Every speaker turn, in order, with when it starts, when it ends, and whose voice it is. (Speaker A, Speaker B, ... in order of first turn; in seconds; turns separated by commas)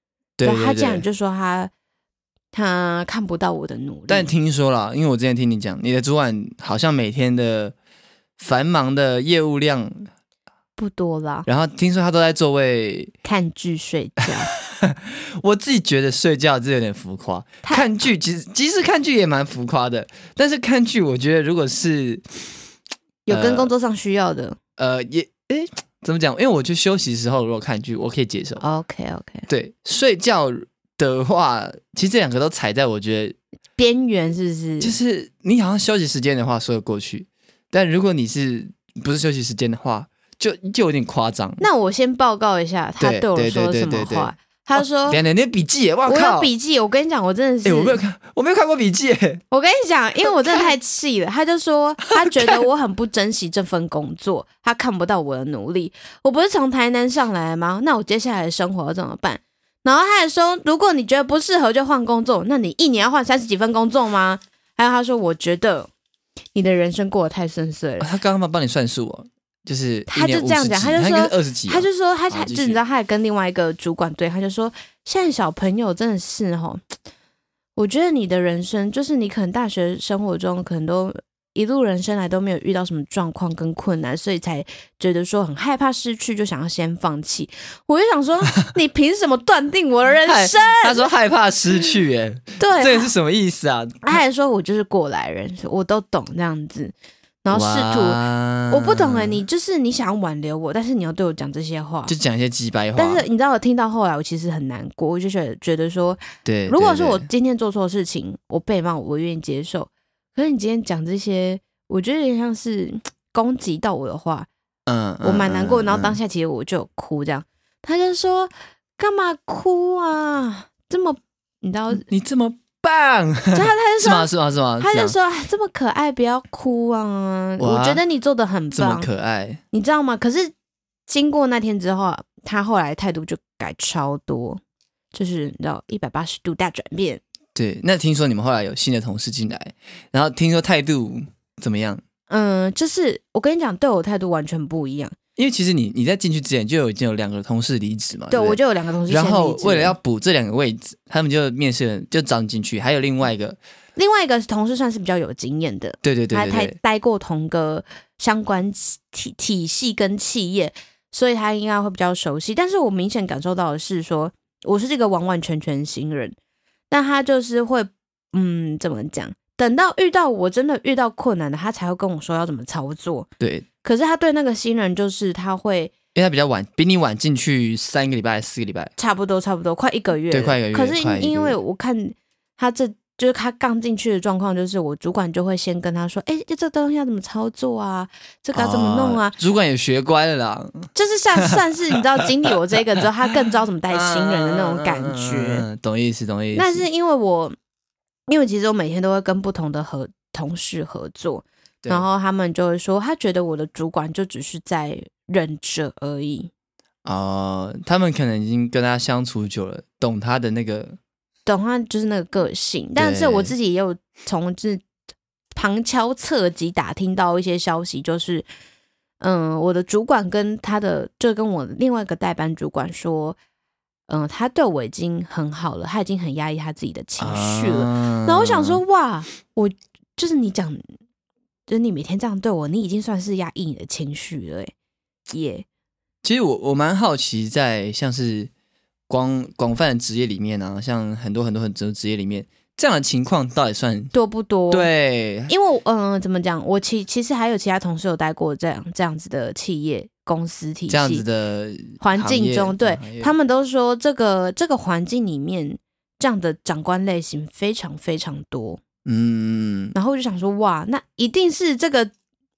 Speaker A: 0.4-1.0, Speaker B: 0.4-1.7, Speaker B: 2.5-4.3, Speaker A: 4.1-7.7, Speaker A: 8.4-10.1, Speaker B: 10.8-11.5, Speaker A: 11.5-13.1, Speaker B: 13.2-14.5, Speaker A: 14.8-22.2, Speaker B: 23.3-24.6, Speaker A: 23.3-23.7, Speaker A: 24.8-28.6, Speaker B: 28.6-29.5, Speaker A: 29.5-33.4, Speaker B: 33.8-35.0, Speaker A: 34.8-41.6, Speaker B: 41.6-45.2, Speaker A: 43.0-44.3, Speaker A: 45.1-46.5, Speaker B: 46.1-48.0, Speaker A: 47.6-49.4, Speaker B: 49.5-65.9, Speaker A: 52.3-52.6, Speaker B: 66.5-68.1, Speaker A: 68.0-72.8, Speaker B: 70.1-76.8, Speaker B: 77.8-91.1, Speaker A: 90.2-94.2, Speaker B: 92.6-93.1, Speaker B: 94.0-102.1, Speaker A: 97.5-99.4, Speaker A: 102.1-103.2, Speaker B: 103.0-114.5, Speaker A: 106.5-107.3, Speaker A: 114.9-116.2, Speaker B: 115.2-122.0, Speaker A: 121.9-125.2, Speaker B: 123.5-129.1, Speaker A: 127.6-128.0, Speaker A: 128.7-129.6, Speaker B: 129.7-130.5, Speaker B: 131.1-134.6, Speaker B: 135.1-137.2, Speaker A: 137.6-142.0, Speaker B: 142.3-145.2, Speaker A: 145.4-153.6, Speaker B: 148.3-150.0, Speaker B: 154.0-166.4, Speaker A: 156.0-156.8, Speaker B: 166.9-173.3, Speaker A: 173.4-173.7, Speaker B: 173.8-175.9, Speaker A: 176.2-178.9, Speaker B: 179.0-189.3, Speaker A: 180.3-181.6, Speaker A: 188.6-191.6, Speaker B: 190.9-195.7, Speaker A: 193.9-196.8, Speaker B: 196.5-197.6, Speaker B: 198.3-206.5, Speaker A: 207.1-211.0, Speaker B: 211.5-214.8, Speaker A: 213.0-213.6, Speaker B: 215.6-218.5, Speaker B: 219.2-223.4, Speaker B: 224.1-230.8, Speaker A: 227.2-228.8, Speaker B: 231.7-234.7, Speaker B: 235.3-235.7, Speaker A: 236.2-238.5, Speaker A: 239.1-244.1, Speaker B: 244.1-244.9, Speaker A: 244.7-245.5, Speaker B: 245.5-251.2, Speaker A: 250.9-253.3, Speaker B: 252.0-258.8, Speaker A: 259.1-259.9, Speaker B: 259.9-262.1